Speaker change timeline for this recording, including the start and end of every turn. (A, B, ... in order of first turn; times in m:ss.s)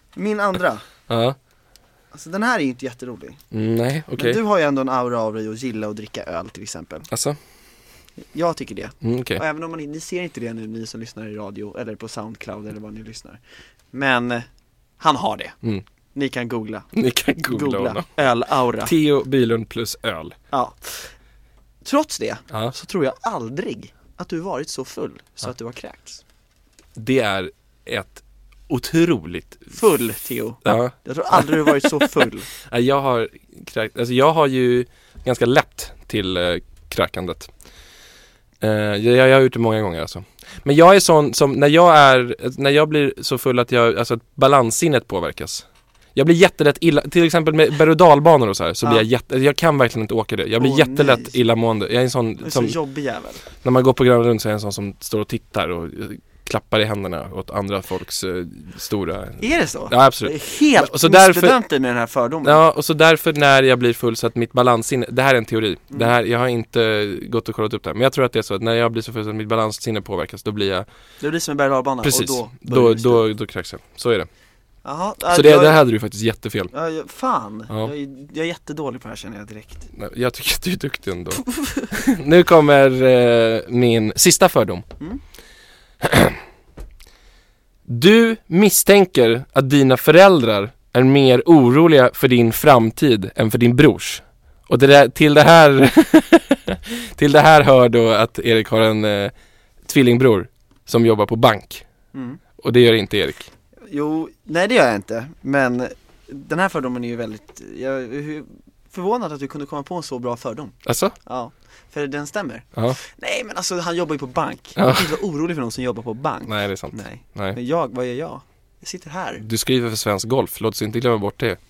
0:00.2-0:00.8 A
0:01.1-0:01.4 B
0:02.1-0:03.4 A
0:03.5-0:04.4 B
0:04.2-0:07.1 A
0:07.1-0:07.4 B
0:08.3-0:13.4 A
0:09.0-0:09.4 B
0:13.9-0:14.5 A
0:15.0-0:15.6 A
0:16.2-0:18.9 A
0:16.9-0:18.1 B
0:18.8-0:20.4 B
0:20.5-0:21.1 A
0:21.8-0:26.2 A
0:27.0-0:29.7 B
0:29.7-0:32.5 A
0:30.6-0:32.1 B
0:32.6-0:37.5 B
0:38.6-0:52.8 B
0:50.6-0:51.4 A
0:52.4-0:53.4 A
0:53.6-1:01.6 B
0:59.4-1:02.6 A
1:02.4-1:10.9 B
1:11.2-1:13.2 A
1:12.0-1:14.3 B
1:14.8-1:15.8 A
1:15.3-1:16.7 B
1:16.7-1:19.9 A
1:19.9-1:24.8 B
1:21.5-1:21.8 A
1:26.0-1:26.4 B
1:27.9-1:39.3 B
1:39.8-1:41.8 B
1:42.1-1:42.4 A
1:42.6-1:43.5 B
1:43.9-1:59.4 A
1:50.8-1:51.2 B
1:54.8-1:55.1 B
1:56.5-1:57.6 B
1:59.4-2:01.6 B